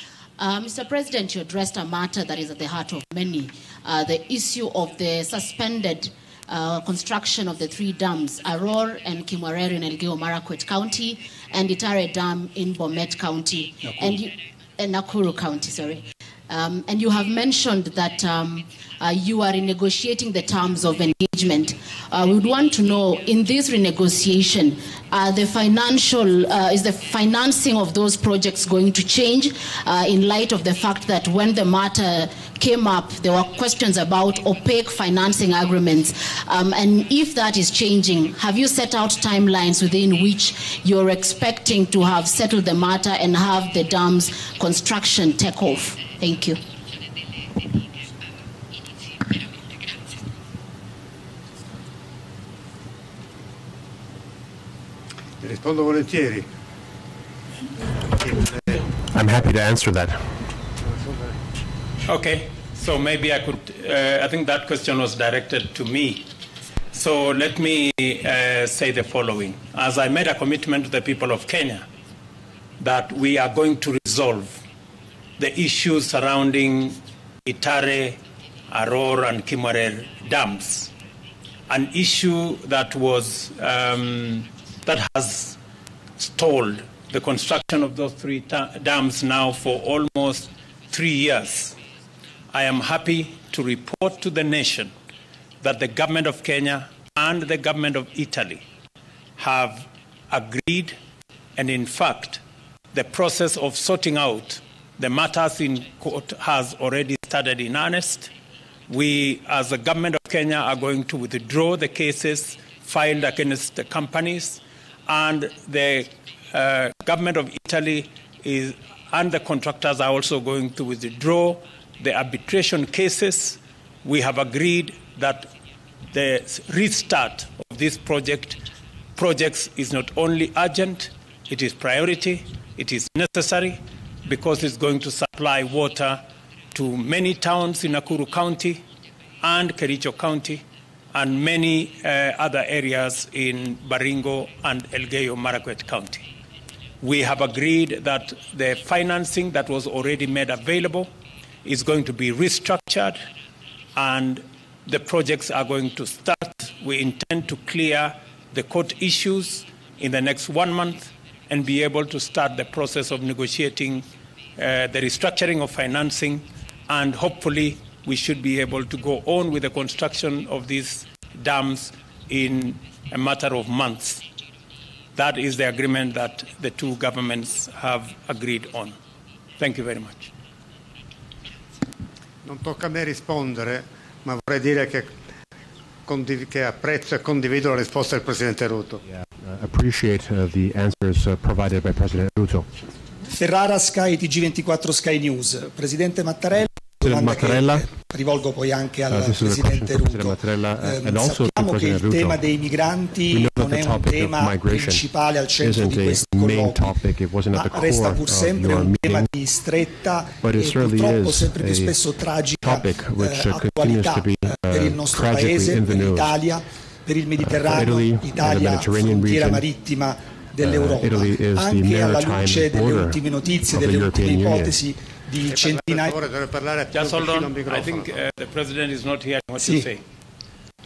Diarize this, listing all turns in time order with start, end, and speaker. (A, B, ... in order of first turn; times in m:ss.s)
0:00.4-0:46.6 A
0:13.8-0:14.1 B
0:55.4-0:56.5 C
0:59.1-1:00.3 D
1:00.9-1:01.3 C
1:02.0-1:06.3 B
1:06.9-1:11.8 B
1:12.8-1:14.6 B
1:15.4-1:18.2 B
1:18.7-1:20.9 B
1:21.7-1:25.6 B
1:26.2-1:31.8 B
1:32.5-1:34.9 B
1:35.6-1:38.6 B
1:39.4-1:41.0 B
1:41.6-1:42.4 B
1:42.9-1:48.3 B
1:48.9-2:05.5 B
2:06.1-2:08.6 B
2:09.2-2:16.2 B
2:16.7-2:18.8 B
2:19.4-2:26.2 B
2:27.0-2:31.1 B
2:31.6-2:33.2 B
2:34.0-2:44.0 B
2:44.6-2:54.2 B
2:55.2-2:58.9 B
2:59.6-3:00.3 B
3:02.4-3:05.1 C
3:06.0-3:09.0 C
3:09.1-3:12.7 D
3:13.3-3:27.0 E
3:17.0-3:17.8 D
3:19.1-3:22.4 D
3:23.3-3:25.1 D
3:25.6-3:29.3 D
3:27.5-3:46.2 E
3:30.4-3:32.0 D
3:32.6-3:36.4 D
3:37.4-3:39.6 D
3:40.6-3:44.8 D
3:45.5-3:48.0 C
3:46.9-3:50.0 B
3:49.6-3:49.9 E